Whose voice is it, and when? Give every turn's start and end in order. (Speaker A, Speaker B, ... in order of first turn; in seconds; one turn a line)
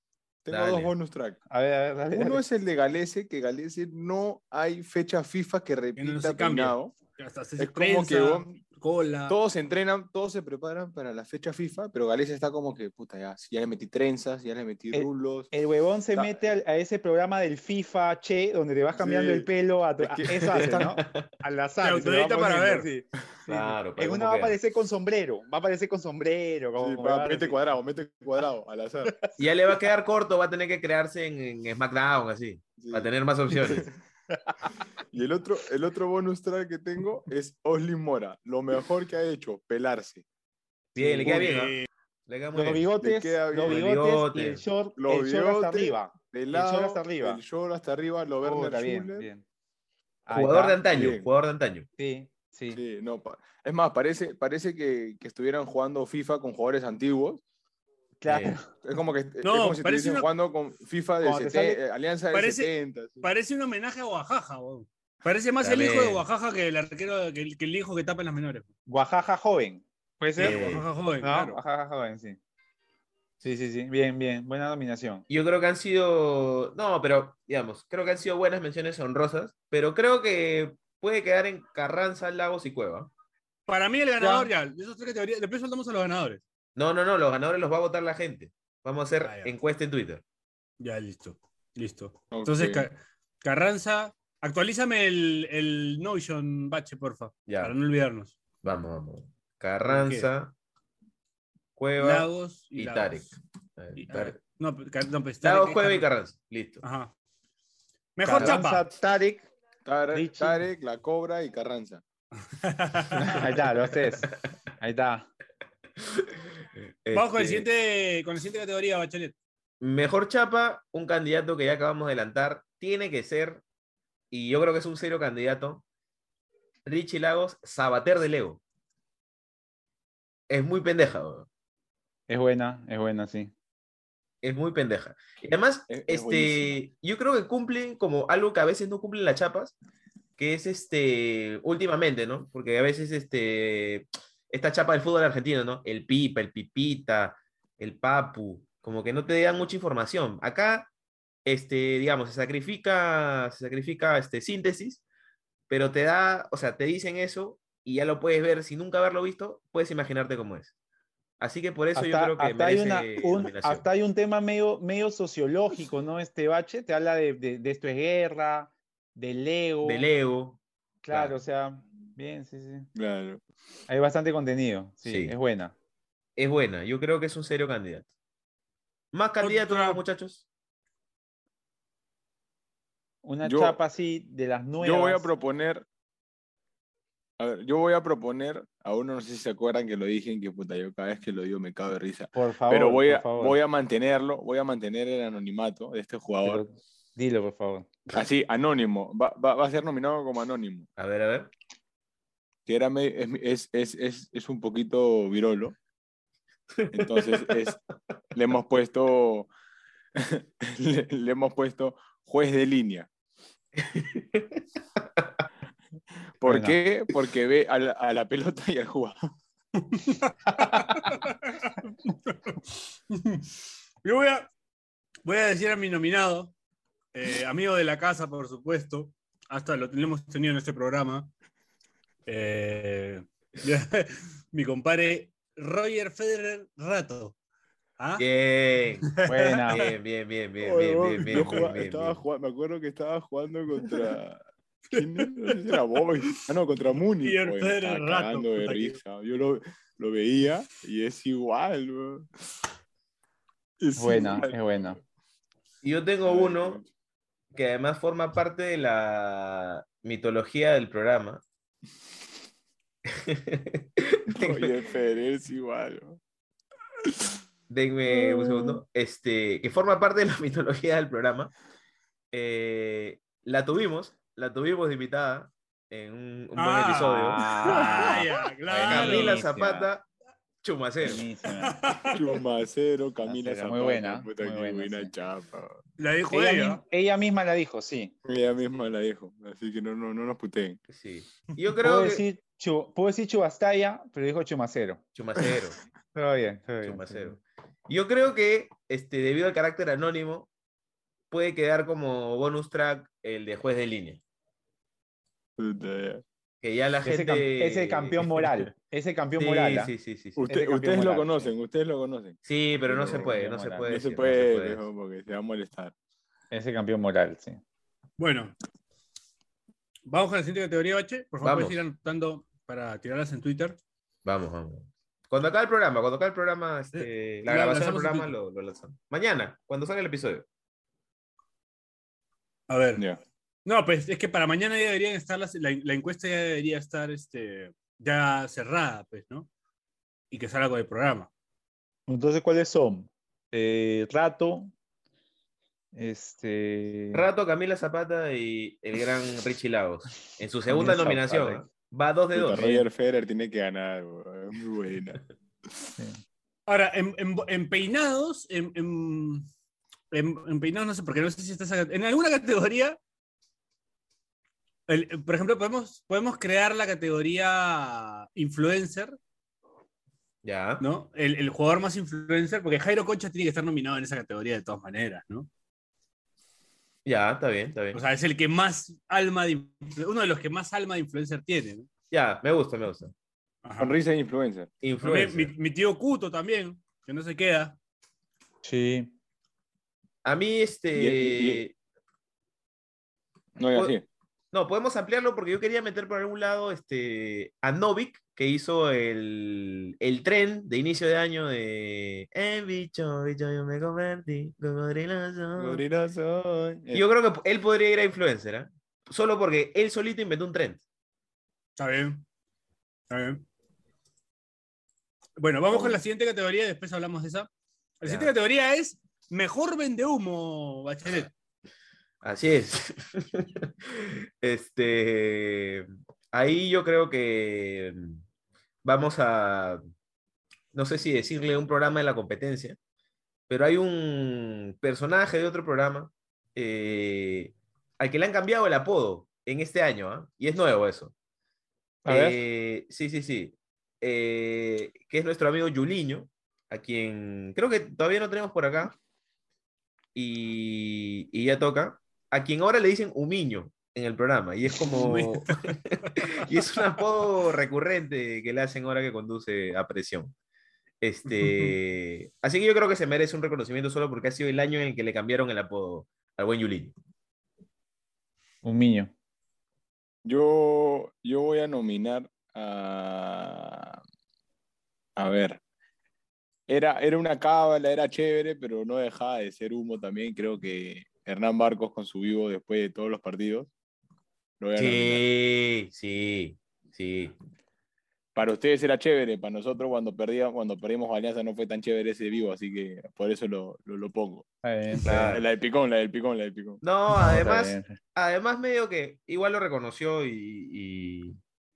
Speaker A: 0.5-1.4
Speaker B: 0.5-0.9
Speaker C: 1.5-2.4
Speaker A: 2.1-7.0
Speaker D: 6.0-9.4
Speaker A: 7.6-8.6
Speaker A: 9.3-15.5
Speaker C: 14.9-27.6
Speaker A: 16.1-16.4
Speaker A: 19.0-19.5
Speaker A: 20.0-21.0
Speaker B: 20.4-21.3
Speaker D: 21.8-22.9
Speaker B: 23.5-24.6
Speaker A: 26.8-29.2
Speaker B: 29.4-33.9
Speaker A: 32.8-33.9
Speaker A: 35.1-40.2
Speaker B: 41.0-42.9
Speaker C: 41.0-41.3
Speaker D: 41.2-41.9
Speaker A: 41.3-41.5
Speaker C: 42.5-47.4
Speaker A: 43.0-43.8
Speaker B: 43.7-44.6
Speaker A: 45.0-49.3
Speaker C: 48.4-49.4
Speaker C: 50.3-50.9
Speaker B: 50.3-51.9
Speaker A: 50.9-51.3
Speaker C: 52.0-52.8
Speaker A: 52.7-57.4
Speaker C: 58.2-58.7
Speaker B: 58.3-58.6
Speaker A: 58.8-63.3
Speaker D: 59.4-60.3
Speaker C: 61.2-61.8
Speaker D: 62.3-62.7
Speaker D: 63.2-68.7
Speaker B: 65.6-66.2
Speaker C: 68.9-70.6
Speaker B: 70.4-70.8
Speaker D: 70.4-71.6
Speaker A: 70.5-70.7
Speaker C: 71.2-72.4
Speaker C: 73.4-75.2
Speaker B: 75.3-83.1
Speaker D: 83.7-86.4
Speaker C: 84.2-84.5
Speaker B: 86.8-90.2
Speaker D: 89.2-89.5
Speaker D: 90.8-98.4
Speaker A: 92.3-92.9
Speaker B: 97.5-97.8
Speaker B: 98.6-100.5
Speaker D: 99.8-100.3
Speaker B: 101.8-104.4
Speaker D: 102.0-103.4
Speaker D: 104.0-106.1
Speaker B: 105.4-106.8
Speaker D: 106.8-107.1
Speaker D: 108.2-108.8
Speaker C: 108.2-109.5
Speaker A: 109.9-112.0
Speaker C: 110.1-110.7
Speaker D: 112.5-113.4
Speaker C: 113.2-115.3
Speaker B: 117.0-117.7
Speaker D: 117.1-119.3
Speaker B: 119.8-123.6
Speaker B: 124.3-125.8
Speaker B: 126.9-128.6
Speaker B: 130.5-131.5
Speaker C: 132.3-133.5
Speaker B: 134.4-139.8
Speaker A: 135.9-136.8
Speaker B: 140.4-150.9
Speaker B: 151.5-155.0
Speaker B: 155.7-160.7
Speaker B: 161.4-163.8
Speaker C: 161.9-170.1
Speaker B: 169.8-170.6
Speaker C: 171.1-172.9
Speaker B: 171.1-171.3
Speaker A: 172.9-173.4
Speaker C: 173.9-175.8
Speaker B: 175.1-175.3
Speaker B: 176.4-178.1
Speaker B: 179.1-180.4
Speaker D: 179.4-180.0
Speaker C: 183.2-185.3
Speaker A: 183.4-183.8
Speaker A: 184.8-185.9
Speaker A: 187.4-196.6
Speaker C: 192.3-193.6
Speaker C: 196.4-197.9
Speaker A: 198.1-200.9
Speaker B: 201.0-201.5
Speaker A: 202.7-205.8
Speaker B: 206.8-207.7
Speaker A: 206.9-207.8
Speaker A: 208.3-209.5
Speaker A: 210.2-213.1
Speaker B: 213.8-214.6
Speaker C: 216.4-216.8
Speaker A: 216.4-219.3
Speaker D: 219.8-222.6
Speaker D: 223.1-223.5
Speaker D: 224.0-224.5
Speaker D: 225.2-226.5
Speaker D: 227.1-231.3
Speaker D: 232.3-237.4
Speaker D: 238.0-238.2
Speaker B: 238.2-239.1
Speaker D: 239.0-239.9
Speaker C: 239.3-239.8
Speaker B: 239.7-242.2
Speaker A: 240.6-252.3
Speaker D: 241.3-241.7
Speaker D: 245.0-245.8
Speaker D: 247.2-249.0
Speaker A: 253.8-254.6
Speaker C: 254.0-255.0
Speaker B: 255.8-256.8
Speaker A: 256.3-256.9
Speaker B: 257.5-261.4
Speaker B: 263.1-264.8
Speaker A: 264.3-266.2
Speaker B: 267.7-271.5
Speaker B: 272.3-278.2
Speaker D: 276.6-279.4
Speaker C: 277.1-279.9
Speaker B: 278.9-280.1
Speaker B: 280.6-281.2
Speaker C: 281.0-282.0
Speaker D: 281.6-282.2
Speaker A: 282.1-285.8
Speaker C: 283.2-285.1
Speaker D: 286.0-286.8
Speaker C: 286.3-288.1
Speaker A: 288.2-290.8
Speaker B: 290.9-292.2
Speaker C: 291.8-295.0
Speaker B: 295.2-295.8
Speaker C: 296.1-297.4
Speaker B: 296.8-300.5
Speaker B: 301.3-304.2
Speaker A: 305.6-306.2
Speaker B: 306.6-308.5
Speaker C: 307.1-309.9
Speaker B: 309.4-310.4
Speaker A: 310.4-312.4
Speaker C: 310.5-311.5
Speaker B: 312.4-314.9
Speaker C: 312.9-313.9
Speaker A: 313.9-315.9
Speaker C: 316.5-317.6
Speaker D: 318.2-318.6
Speaker D: 320.1-323.8
Speaker B: 321.4-321.8
Speaker B: 324.2-330.5
Speaker D: 326.9-328.3
Speaker D: 332.7-333.0
Speaker D: 333.6-339.5
Speaker D: 340.3-341.3
Speaker C: 342.1-344.7
Speaker C: 345.9-347.3
Speaker B: 347.1-352.8
Speaker C: 350.7-351.7
Speaker A: 352.3-355.2
Speaker D: 356.7-359.5
Speaker D: 360.1-363.0
Speaker D: 364.9-369.2
Speaker B: 370.4-370.8
Speaker D: 370.8-375.5
Speaker B: 377.1-378.0
Speaker D: 377.9-381.9
Speaker B: 382.1-383.1
Speaker D: 383.6-384.0
Speaker A: 383.8-384.7
Speaker B: 384.8-385.5
Speaker D: 385.0-387.8
Speaker C: 388.6-389.1
Speaker B: 390.2-391.7
Speaker A: 390.9-391.6
Speaker A: 393.6-394.1
Speaker B: 394.5-405.8
Speaker A: 405.6-407.1
Speaker B: 406.9-410.8
Speaker D: 411.8-412.2
Speaker D: 413.1-413.4
Speaker D: 415.4-417.5
Speaker B: 415.7-416.0
Speaker D: 418.0-421.3
Speaker B: 418.1-418.3
Speaker B: 422.2-428.2
Speaker B: 428.8-429.8
Speaker B: 430.7-432.8
Speaker B: 433.5-441.1
Speaker C: 442.1-442.4
Speaker B: 442.1-449.0
Speaker B: 450.1-460.3
Speaker D: 454.8-455.6
Speaker B: 461.0-466.9
Speaker D: 461.4-461.8
Speaker C: 468.6-469.1
Speaker A: 470.2-474.0
Speaker A: 475.2-475.6
Speaker A: 476.7-483.7
Speaker A: 484.6-485.2
Speaker B: 484.8-487.4
Speaker A: 488.4-494.5
Speaker C: 494.6-495.4
Speaker B: 495.1-495.5
Speaker A: 495.3-496.8
Speaker B: 496.8-501.4
Speaker C: 497.1-498.0